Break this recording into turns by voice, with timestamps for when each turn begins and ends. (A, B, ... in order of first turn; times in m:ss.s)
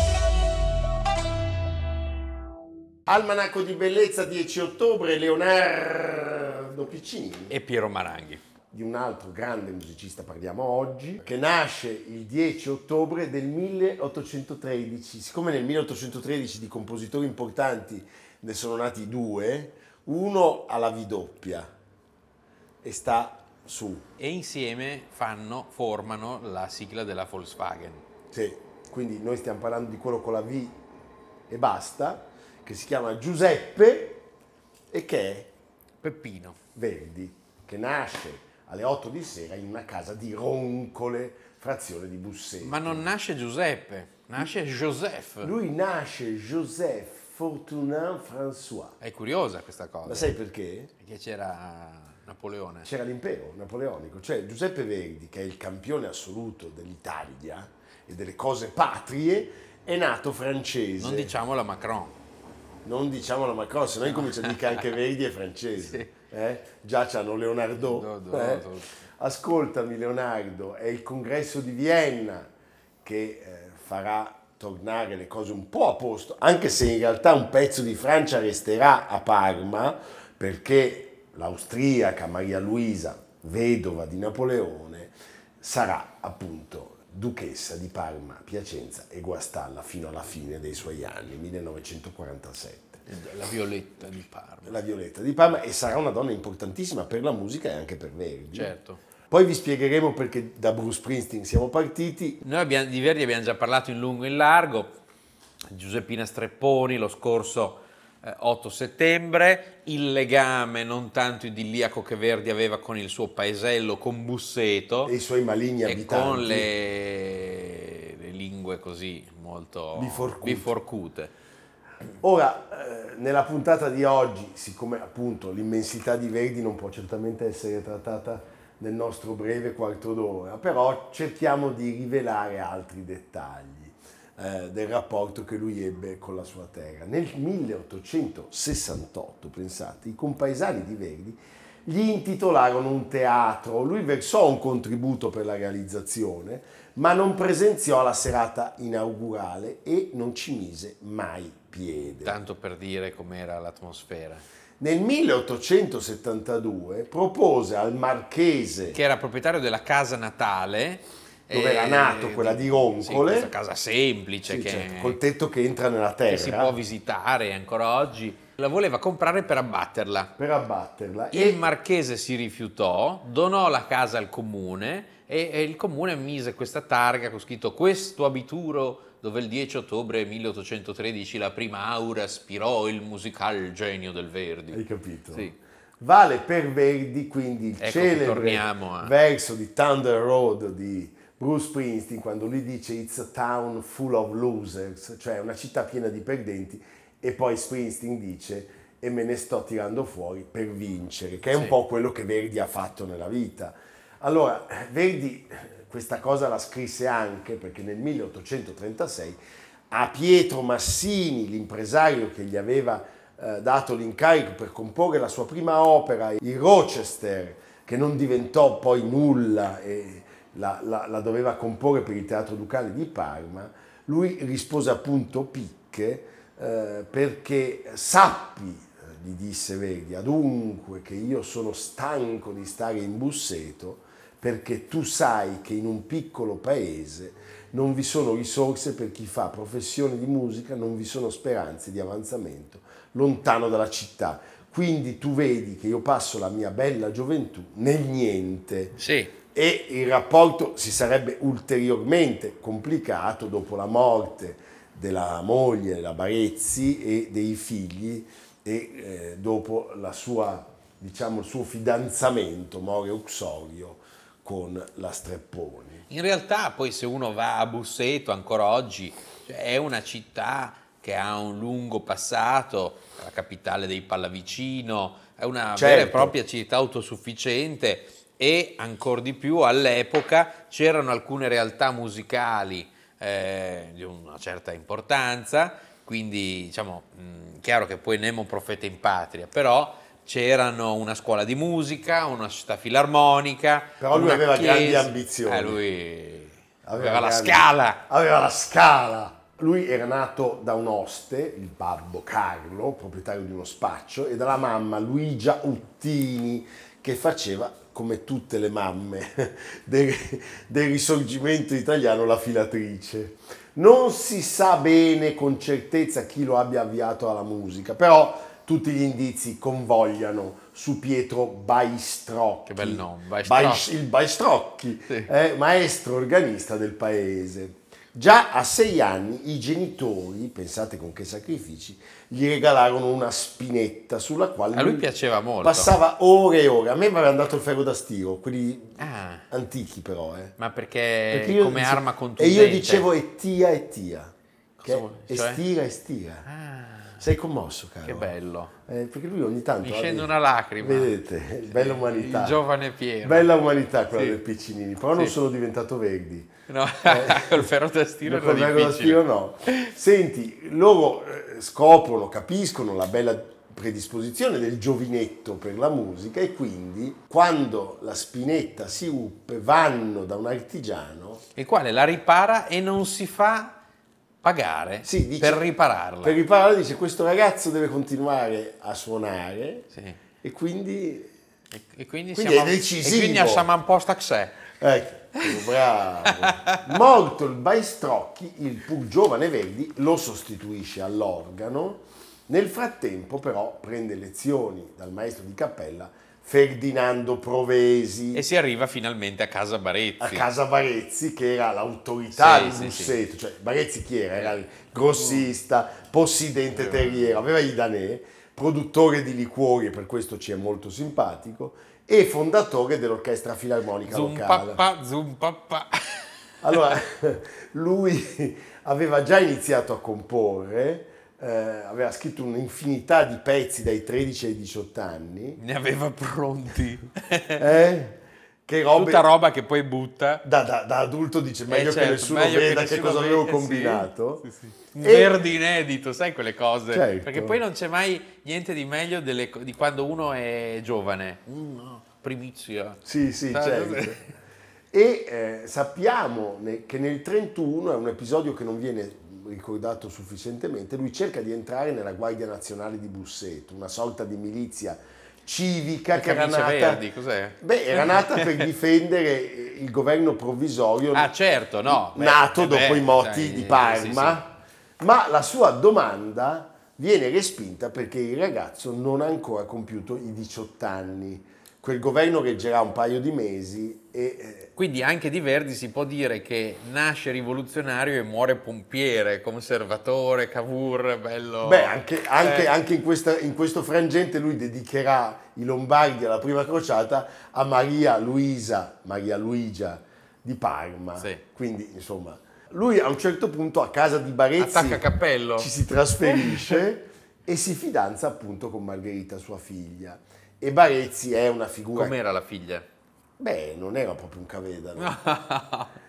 0:03.1-0:07.5 A
0:07.5-0:08.4 B
0:08.7-0:21.7 A
0:22.8-0:24.0 A
0:24.2-0:28.0 B
0:28.3-0:30.8 A
0:31.5-0:34.2 A
0:34.9-0:35.5 A
0:36.0-0:36.6 B
0:36.8-0:43.1 A
0:42.6-0:45.5 B
0:45.4-0:49.0 A
0:49.0-0:50.3 B
0:50.0-0:50.9 A
0:51.0-0:52.9 B
0:52.8-1:01.3 A
1:01.0-1:02.2 B
1:02.8-1:08.7 A
1:04.1-1:04.8 B
1:05.8-1:06.1 B
1:07.8-1:08.9 B
1:09.2-1:12.5 A
1:13.0-1:33.0 A
1:33.1-1:34.8 B
1:34.6-1:38.7 A
1:38.5-1:39.0 B
1:39.3-1:42.4 A
1:42.4-1:45.0 B
1:45.7-1:55.1 B
1:55.0-1:56.7 A
1:55.8-2:01.3 B
1:59.9-2:00.7 A
2:02.2-2:32.4 A
2:32.2-2:34.4 B
2:34.8-2:39.0 A
2:38.9-2:45.2 B
2:41.5-2:43.5 A
2:44.5-2:46.8 A
2:46.3-2:50.3 B
2:50.4-2:51.6 A
2:51.3-3:04.8 B
3:04.7-3:05.5 A
3:06.0-3:29.4 A
3:07.8-3:09.1 B
3:29.9-4:09.0 A
4:09.0-4:09.3 B
4:09.5-4:26.1 A
4:26.1-4:58.1 B
4:35.8-4:36.4 A
4:54.0-4:55.8 A
4:56.8-5:35.1 A
5:22.7-5:23.9 B
5:34.7-5:35.9 B
5:35.6-5:40.6 A
5:39.0-5:39.5 B
5:40.6-5:43.1 B
5:41.3-5:46.4 A
5:44.8-5:45.6 B
5:46.4-5:47.2 B
5:47.2-5:48.3 A
5:48.0-5:48.7 B
5:48.9-5:50.3 A
5:49.8-5:51.2 B
5:50.8-5:52.6 A
5:51.7-5:53.5 B
5:53.2-5:56.5 A
5:54.1-5:54.4 B
5:56.7-5:59.9 B
5:57.0-5:57.7 A
5:58.2-6:11.4 A
6:11.6-6:13.8 B
6:14.4-6:16.4 B
6:15.0-6:15.7 A
6:16.2-6:19.9 A
6:19.9-6:20.2 B
6:20.4-6:21.3 A
6:21.7-6:24.7 B
6:22.4-6:23.7 A
6:24.8-6:38.4 A
6:26.2-6:26.9 B
6:38.3-6:40.4 B
6:40.2-6:54.8 A
6:42.3-6:43.2 B
6:45.2-6:45.4 B
6:46.7-6:47.4 B
6:54.0-6:57.0 B
6:56.6-7:05.6 A
7:05.6-7:07.7 B
7:07.6-7:09.2 A
7:08.9-7:10.4 B
7:10.4-7:15.4 A
7:11.7-7:24.3 B
7:16.9-7:17.6 A
7:23.0-7:24.3 A
7:24.9-7:37.0 A
7:36.1-7:38.6 B
7:37.6-7:41.3 A
7:41.1-7:44.4 B
7:41.9-7:54.7 A
7:54.8-8:02.7 B
8:01.6-8:15.0 A
8:11.2-8:11.4 B
8:14.6-8:15.7 B
8:15.6-8:22.2 A
8:16.2-8:16.8 B
8:21.9-8:22.8 B
8:23.4-8:25.2 A
8:25.0-8:25.9 B